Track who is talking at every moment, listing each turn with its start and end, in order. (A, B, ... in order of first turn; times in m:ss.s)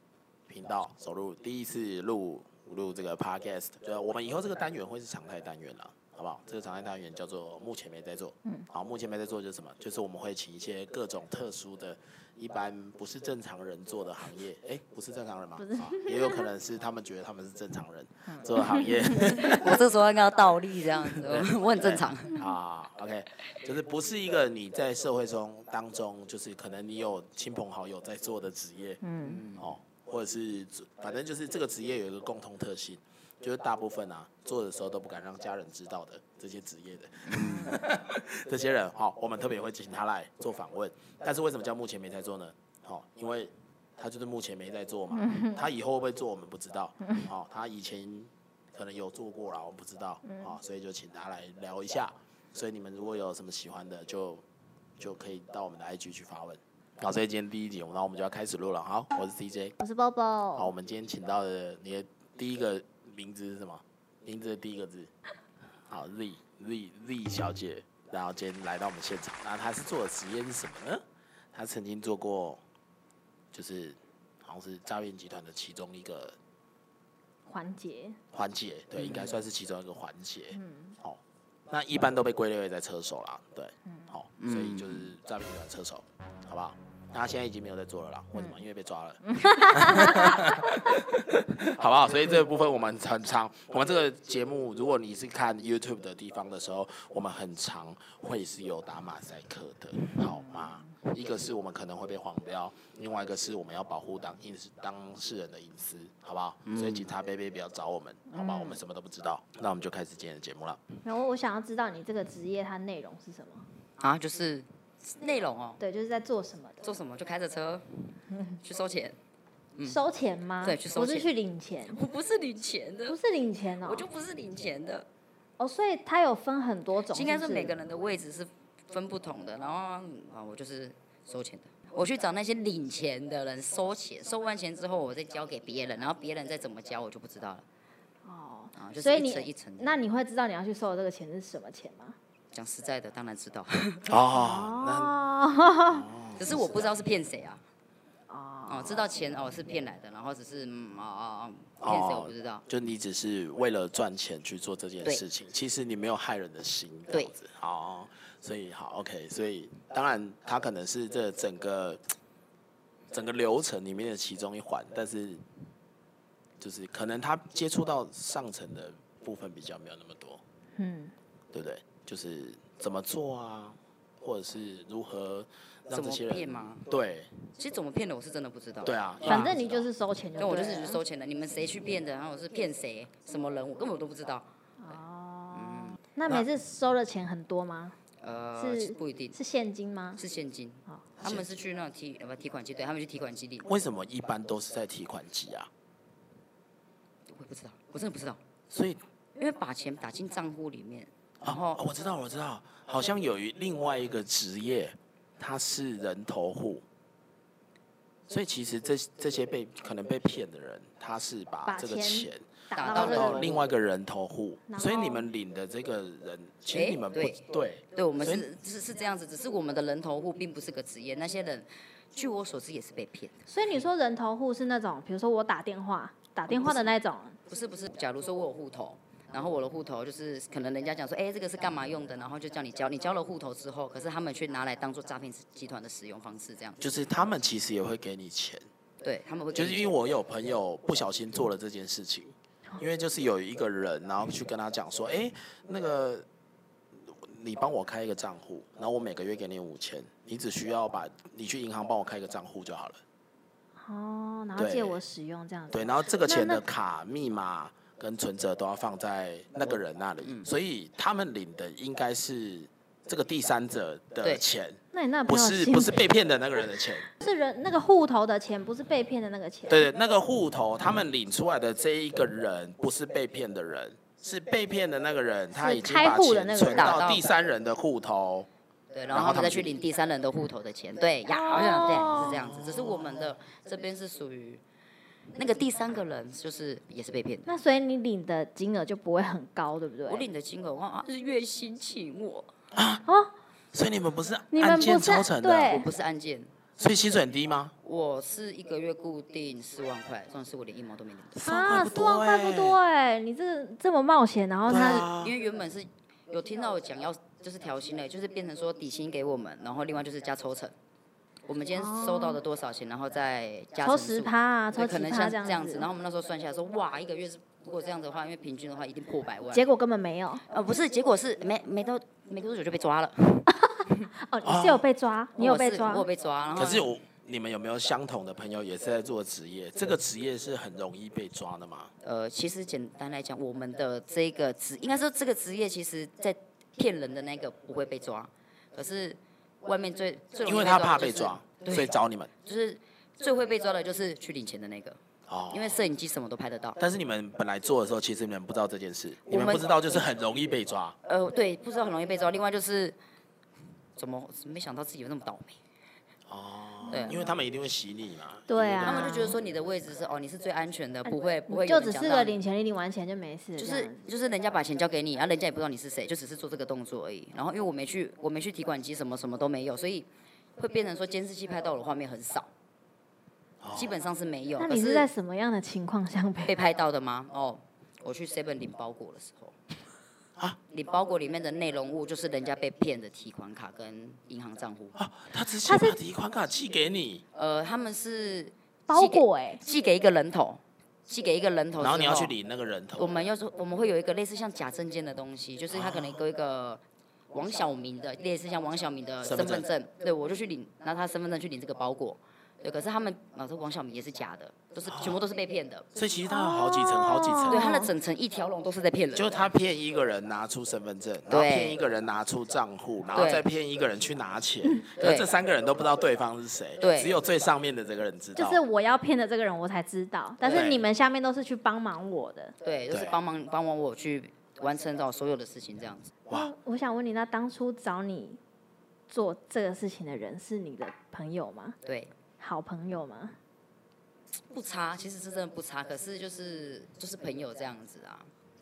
0:00.5-0:19.8 A
0:15.6-0:16.4 B
0:18.6-0:18.9 B
0:19.4-0:22.4 C
0:21.2-0:29.0 A
0:29.0-0:29.4 B
0:29.2-0:29.7 C
0:29.6-0:54.4 A
0:37.4-0:37.8 B
0:45.2-0:45.6 B
0:55.0-0:59.7 A
0:59.8-1:00.7 B
1:00.6-1:05.1 A
1:05.9-1:11.0 A
1:11.5-1:12.6 A
1:13.5-1:16.4 A
1:17.5-1:18.2 B
1:18.3-1:50.8 A
1:19.0-1:19.3 C
1:20.6-1:20.9 B
1:24.4-1:25.1 C
1:29.3-1:30.5 B
1:46.6-1:47.1 C
1:48.3-1:48.8 B
1:51.0-1:53.6 B
1:54.0-1:55.8 C
1:55.8-1:56.8 B
1:56.8-1:59.2 C
1:59.8-2:02.0 B
2:00.6-2:01.3 C
2:01.9-2:03.2 C
2:03.1-2:04.1 B
2:03.8-2:05.0 C
2:05.6-2:07.8 B
2:07.1-2:17.6 C
2:18.2-2:22.2 B
2:18.8-2:20.0 C
2:22.5-2:24.0 C
2:24.1-2:25.1 A
2:24.3-2:26.1 B
2:25.9-2:26.4 A
2:26.4-2:27.6 C
2:28.3-2:29.0 B
2:28.7-2:32.6 C
2:31.8-2:42.0 A
2:43.1-2:45.4 A
2:46.6-2:50.4 A
2:50.8-2:51.1 B
2:51.5-2:57.3 A
2:55.9-2:56.8 C
2:57.6-2:58.9 C
2:58.8-2:59.9 A
2:59.2-3:01.0 B
3:00.4-3:04.5 C
3:04.8-3:08.0 B
3:05.5-3:06.0 C
3:08.2-3:09.4 C
3:08.6-3:10.2 B
3:10.2-3:13.7 C
3:13.6-3:15.7 A
3:17.3-3:18.4 C
3:18.7-3:19.0 A
3:19.4-3:21.8 C
3:21.4-3:26.8 A
3:28.3-3:38.4 A
3:31.6-3:33.5 B
3:32.7-3:33.7 C
3:34.7-3:35.2 B
3:36.7-3:43.4 C
3:43.5-3:47.4 B
3:46.5-3:46.9 C
3:47.5-3:56.9 C
3:56.8-3:58.6 A
3:59.0-3:59.9 C
3:59.5-4:06.2 A
4:07.0-4:13.0 A
4:13.8-4:16.6 B
4:14.6-4:15.0 A
4:15.7-4:27.1 A
4:24.9-4:26.1 B
4:27.2-4:29.9 B
4:29.7-4:38.5 A
4:35.5-4:37.0 B
4:36.7-4:37.3 C
4:38.9-4:44.6 C
4:39.1-4:39.7 A
4:41.3-4:42.5 B
4:42.1-4:43.3 A
4:45.3-4:47.5 C
4:47.4-4:50.2 B
4:50.0-4:52.5 C
4:52.7-4:53.0 A
4:53.0-4:53.3 B
4:53.7-4:55.8 A
4:54.5-4:55.9 B
4:55.6-4:56.5 C
4:56.8-4:57.7 A
4:57.8-5:01.4 C
5:01.4-5:02.8 A
5:01.4-5:05.1 B
5:04.7-5:05.3 A
5:05.0-5:10.7 C
5:11.4-5:19.6 C
5:11.7-5:12.4 B
5:13.8-5:15.9 B
5:19.5-5:20.4 B
5:20.5-5:24.0 C
5:24.1-5:26.1 B
5:24.4-5:24.8 A
5:25.4-5:26.9 C
5:26.6-5:31.9 A
5:32.0-5:45.0 C
5:40.4-5:42.3 A
5:45.3-5:45.8 A
5:45.5-5:46.8 C
5:46.8-5:51.0 A
5:49.3-5:50.0 C
5:51.0-5:53.0 C
5:54.0-5:55.6 C
5:56.3-5:59.3 A
5:56.9-5:57.2 B
5:56.9-5:57.2 C
5:58.5-5:59.4 B
5:58.8-6:02.4 C
6:01.1-6:04.0 B
6:03.6-6:12.5 C
6:13.6-6:13.9 A
6:13.7-6:15.1 C
6:14.6-6:16.6 B
6:16.4-6:19.5 C
6:20.7-6:24.9 C
6:24.9-6:27.2 A
6:25.6-6:26.0 B
6:27.3-6:32.3 C
6:28.9-6:29.6 B
6:31.8-6:33.1 A
6:33.0-6:45.9 C
6:35.7-6:36.2 A
6:39.2-6:39.7 A
6:44.9-6:45.2 A
6:45.9-6:47.7 A
6:46.3-6:47.9 B
6:47.5-6:49.4 C
6:49.1-6:58.6 A
6:51.3-6:51.8 C
6:53.1-6:53.4 C
6:55.0-6:55.2 C
6:56.8-6:57.2 C
6:58.4-7:02.5 B
7:00.4-7:00.7 C
7:00.5-7:00.8 A
7:02.6-7:06.1 C
7:06.3-7:08.4 B
7:09.1-7:11.8 B
7:11.8-7:12.1 C
7:12.4-7:13.4 B
7:14.5-7:18.3 C